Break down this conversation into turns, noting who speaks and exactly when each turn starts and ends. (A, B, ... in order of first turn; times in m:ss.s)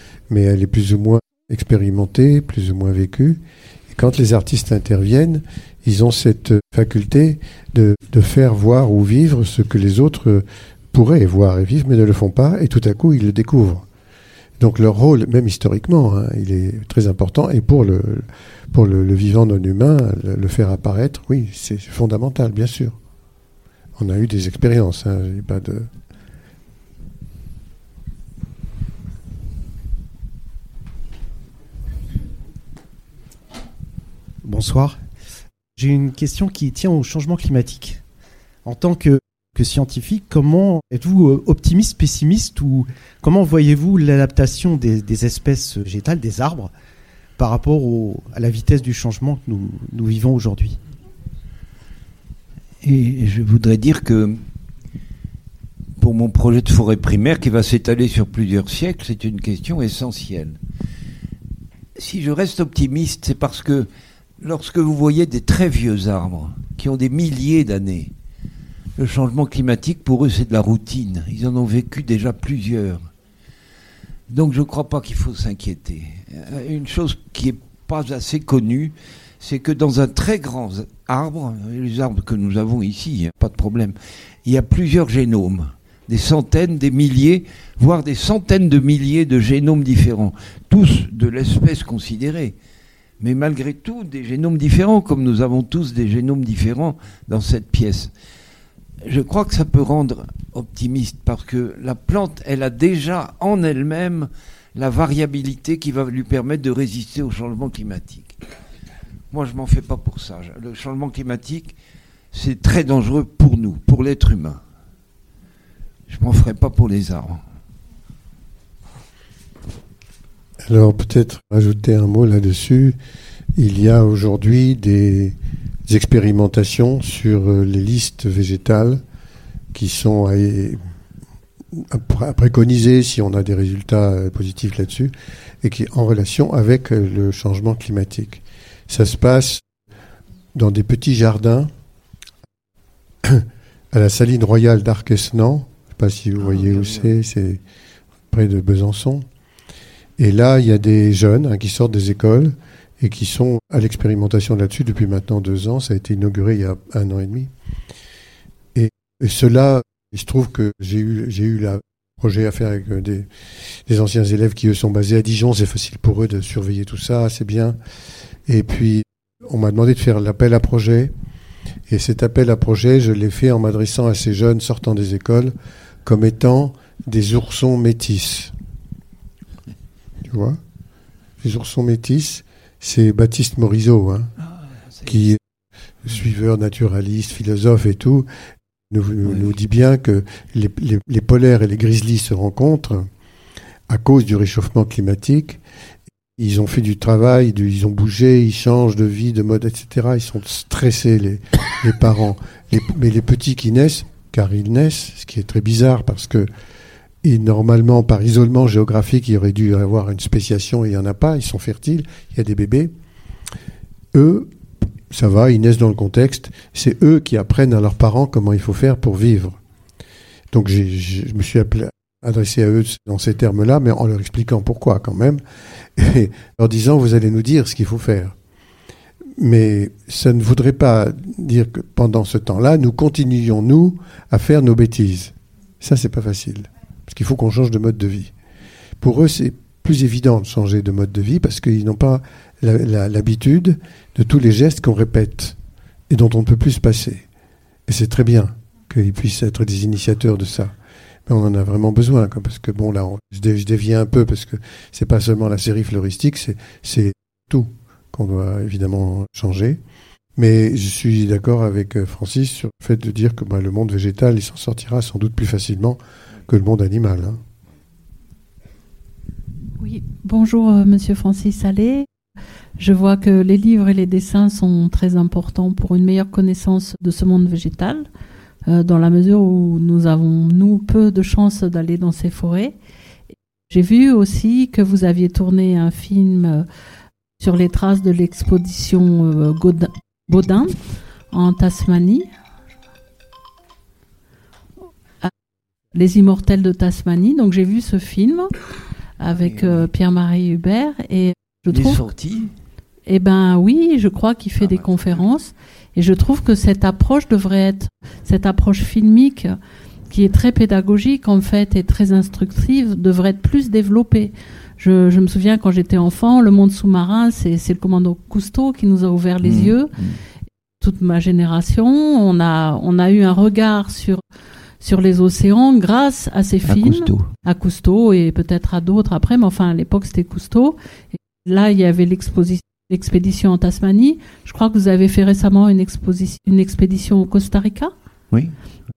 0:00.3-0:13.8 A
0:14.6-0:23.0 A
0:24.0-0:25.9 A
0:34.4-0:35.0 B
0:35.8-0:38.0 B
0:38.6-0:46.7 B
0:47.4-0:50.8 B
0:52.8-0:54.4 C
0:56.0-1:00.6 C
1:02.0-1:03.9 C
1:04.4-1:08.1 C
1:09.0-1:13.1 C
1:14.3-1:32.6 C
1:33.2-1:38.1 C
1:39.0-1:48.4 C
1:49.3-1:51.7 C
1:52.3-1:54.6 C
1:56.1-1:57.4 C
2:00.6-2:03.0 A
2:03.6-2:05.4 A
2:05.9-2:09.0 A
2:09.7-2:10.8 A
2:11.7-2:19.6 A
2:20.6-2:21.7 A
2:23.2-2:27.6 A
2:26.4-2:27.1 C
2:28.3-2:29.3 A
2:30.2-2:37.5 A
2:38.7-2:47.8 A
2:48.5-2:51.1 A
2:51.9-2:58.5 A
3:00.2-3:00.6 A
3:01.4-3:04.3 A
3:05.0-3:05.2 C
3:05.0-3:05.4 A
3:06.0-3:08.3 A
3:08.9-3:13.1 A
3:13.9-3:15.6 A
3:16.4-3:26.5 A
3:27.2-3:32.9 A
3:34.1-3:34.5 A
3:35.1-3:39.6 A
3:40.5-3:45.4 A
3:46.0-3:48.4 A
3:49.4-3:58.3 A
3:59.0-4:05.6 A
4:06.1-4:07.3 A
4:07.9-4:10.7 A
4:11.3-4:19.8 A
4:20.4-4:27.4 A
4:29.8-4:32.1 D
4:32.8-4:38.1 D
4:38.7-4:42.7 D
4:43.7-4:46.7 D
4:47.4-4:52.3 D
4:55.9-4:58.5 D
4:59.2-5:02.1 D
4:59.3-4:59.9 C
5:01.7-5:02.5 C
5:03.1-5:09.6 D
5:04.6-5:05.1 C
5:10.1-5:19.9 D
5:19.4-5:20.2 C
5:20.8-5:24.2 D
5:24.8-5:37.9 D
5:26.6-5:27.3 C